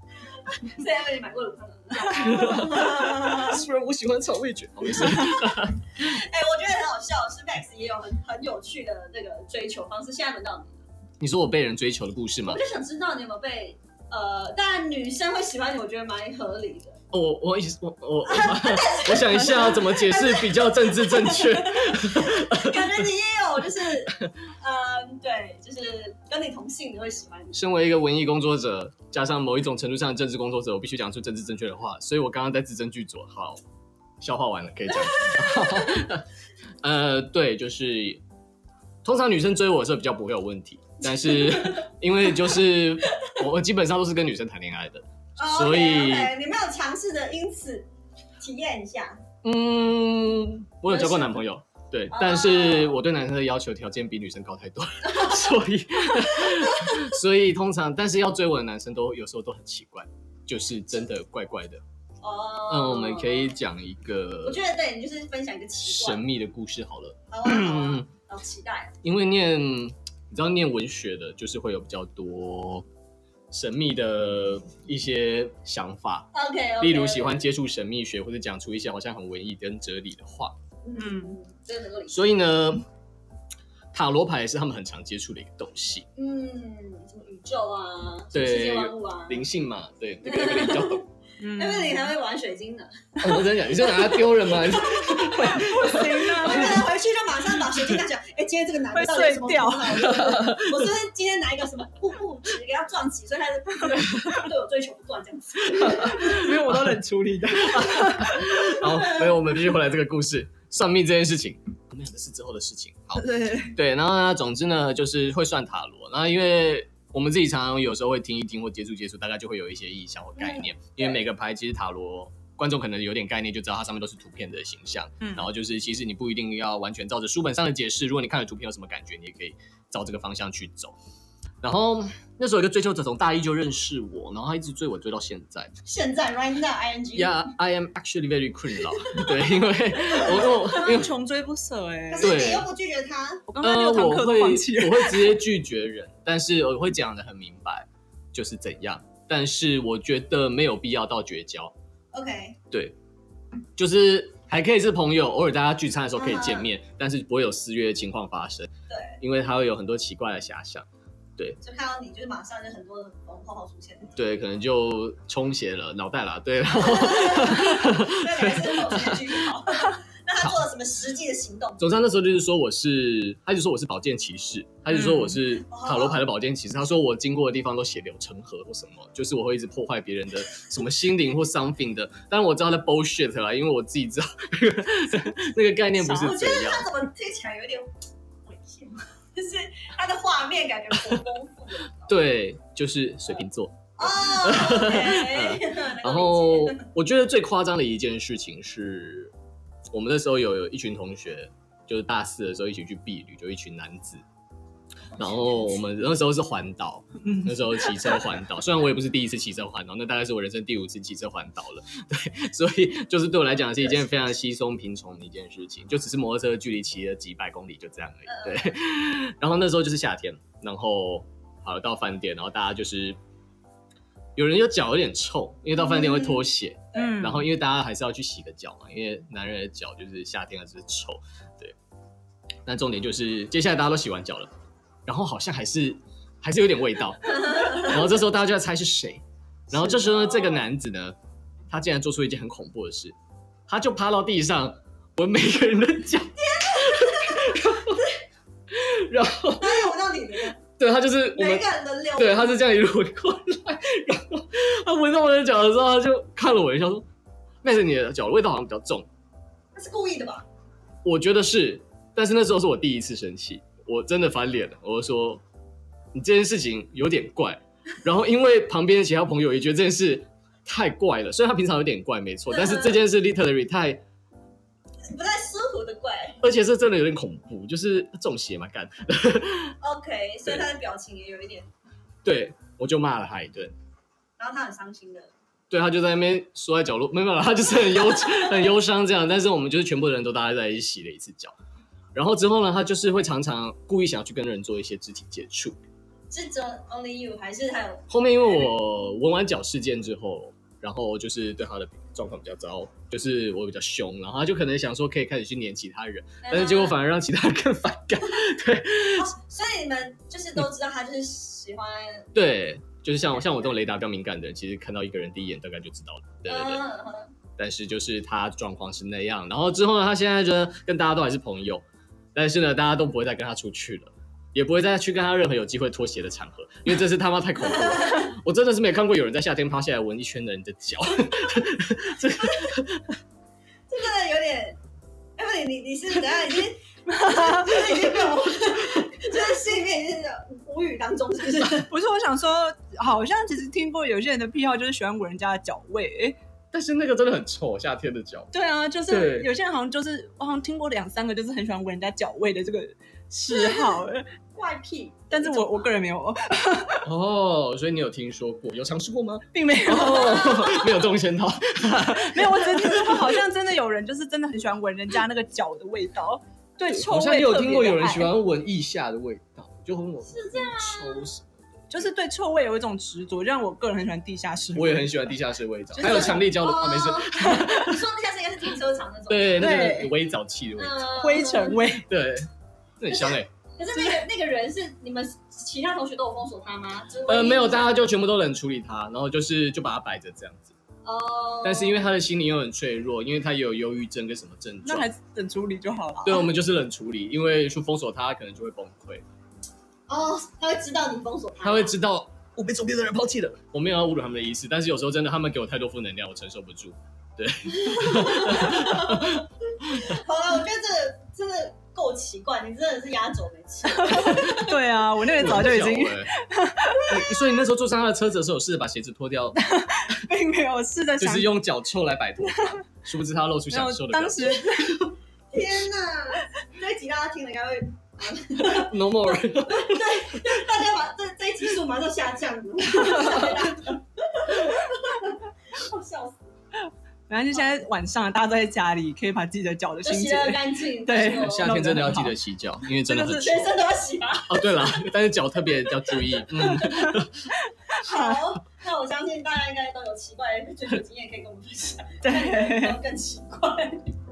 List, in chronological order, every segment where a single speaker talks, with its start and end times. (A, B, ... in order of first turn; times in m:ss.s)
0:00.5-0:03.6 A
0:02.1-0:05.8 B
0:05.5-0:10.8 A
0:11.2-0:12.6 B
0:12.4-0:17.0 A
0:17.1-0:23.0 B
0:18.2-0:27.6 A
0:27.5-0:33.6 B
0:34.2-0:36.2 B
0:35.1-0:36.0 A
0:36.8-0:38.2 B
0:39.0-0:46.3 B
0:41.1-0:41.9 A
0:43.1-0:43.4 A
0:45.4-0:47.9 A
0:48.4-0:49.2 A
0:49.4-1:01.8 B
0:50.9-0:51.4 A
0:52.1-0:53.0 A
0:55.0-0:55.5 A
0:56.4-0:57.0 A
1:02.2-1:03.6 A
1:02.7-1:04.6 B
1:04.4-1:06.2 A
1:05.8-1:08.1 B
1:07.3-1:08.9 A
1:09.0-1:12.8 B
1:13.5-1:16.3 B
1:16.3-1:17.4 A
1:16.8-1:20.6 B
1:20.8-1:22.2 A
1:21.0-1:21.4 C
1:22.1-1:22.8 B
1:23.9-1:26.0 B
1:26.2-1:29.4 A
1:28.3-1:31.0 B
1:30.2-1:31.0 A
1:31.4-1:32.1 C
1:31.6-1:46.4 A
1:33.2-1:36.6 B
1:35.4-1:36.8 C
1:38.9-1:40.2 C
1:40.1-1:40.8 B
1:45.8-1:46.5 B
1:45.8-1:48.7 C
1:47.6-2:10.9 B
1:48.7-1:49.4 A
1:53.2-1:53.8 C
2:00.4-2:01.2 A
2:05.2-2:05.4 C
2:11.6-2:15.7 B
2:15.8-2:17.5 A
2:17.1-2:21.1 B
2:20.1-2:20.9 A
2:20.3-2:22.4 C
2:22.1-2:23.4 A
2:22.2-2:22.7 B
2:23.5-2:25.4 C
2:23.6-2:31.7 B
2:32.1-2:32.6 A
2:32.7-2:33.0 B
2:33.8-2:41.6 B
2:36.2-2:36.7 A
2:38.9-2:39.2 A
2:41.6-2:44.2 A
2:44.2-2:49.5 B
2:46.8-2:51.8 A
2:51.8-3:06.8 B
2:55.0-2:55.3 C
2:55.5-2:56.2 A
3:06.0-3:07.9 A
3:08.4-3:12.1 A
3:12.1-3:19.3 B
3:14.0-3:16.9 A
3:19.9-3:24.2 B
3:25.2-3:43.2 B
3:38.3-3:38.7 A
3:44.4-3:51.7 B
3:45.9-3:46.4 A
3:46.9-3:47.4 C
3:52.6-3:54.5 B
3:55.0-4:01.2 B
3:59.7-4:00.6 A
4:01.7-4:03.1 B
4:03.7-4:08.0 B
4:06.4-4:08.1 A
4:08.7-4:09.9 B
4:09.6-4:10.6 A
4:10.7-4:17.0 B
4:11.3-4:12.5 A
4:17.6-4:19.1 B
4:19.7-4:20.4 A
4:21.0-4:25.4 B
4:26.1-4:34.0 B
4:32.5-4:33.0 A
4:35.1-4:36.4 A
4:36.4-4:39.7 B
4:39.8-4:41.7 A
4:42.2-4:43.7 B
4:44.4-4:45.3 A
4:45.7-4:51.5 B
4:52.1-4:55.8 B
4:56.3-4:58.7 A
4:58.1-5:09.3 B
5:06.4-5:07.0 A
5:09.2-5:12.3 A
5:12.3-5:16.8 B
5:16.5-5:17.3 A
5:17.6-5:21.8 B
5:22.3-5:33.2 B
5:27.8-5:28.1 A
5:32.4-5:32.7 A
5:33.9-5:34.8 A
5:35.4-5:41.9 A
5:37.1-5:38.0 C
5:41.5-5:46.4 C
5:46.7-5:48.5 B
5:48.5-5:54.3 C
5:49.1-5:49.5 B
5:53.5-5:54.0 A
5:54.5-5:55.9 A
5:55.3-5:57.1 C
5:57.0-6:03.4 B
5:59.5-6:00.7 C
5:59.9-6:01.0 A
6:02.1-6:08.3 C
6:06.9-6:11.9 B
6:10.3-6:11.3 A
6:11.9-6:15.3 C
6:14.7-6:18.0 B
6:15.9-6:16.5 C
6:16.0-6:19.9 A
6:19.3-6:21.1 B
6:19.6-6:20.1 C
6:20.8-6:21.8 A
6:21.1-6:22.1 C
6:22.1-6:22.5 B
6:23.0-6:23.5 B
6:23.1-6:28.1 A
6:27.3-6:30.7 B
6:31.0-6:32.0 A
6:31.6-6:35.0 B
6:34.8-6:36.5 C
6:36.2-6:39.2 B
6:40.1-6:41.9 A
6:41.6-6:50.1 B
6:47.7-6:54.8 A
6:53.9-6:57.2 C
6:55.4-6:56.3 B
6:57.1-6:59.6 B
6:59.6-7:01.6 C
7:01.2-7:04.7 B
7:02.5-7:02.8 C
7:03.7-7:05.1 C
7:05.5-7:08.9 A
7:08.6-7:10.6 B
7:09.7-7:16.5 A
7:17.3-7:22.4 C
7:20.0-7:21.7 A
7:21.3-7:23.8 B
7:23.0-7:23.6 C
7:23.3-7:25.0 A
7:24.5-7:27.5 B
7:26.6-7:27.1 A
7:26.8-7:28.4 C
7:27.9-7:34.1 A
7:32.2-7:33.0 C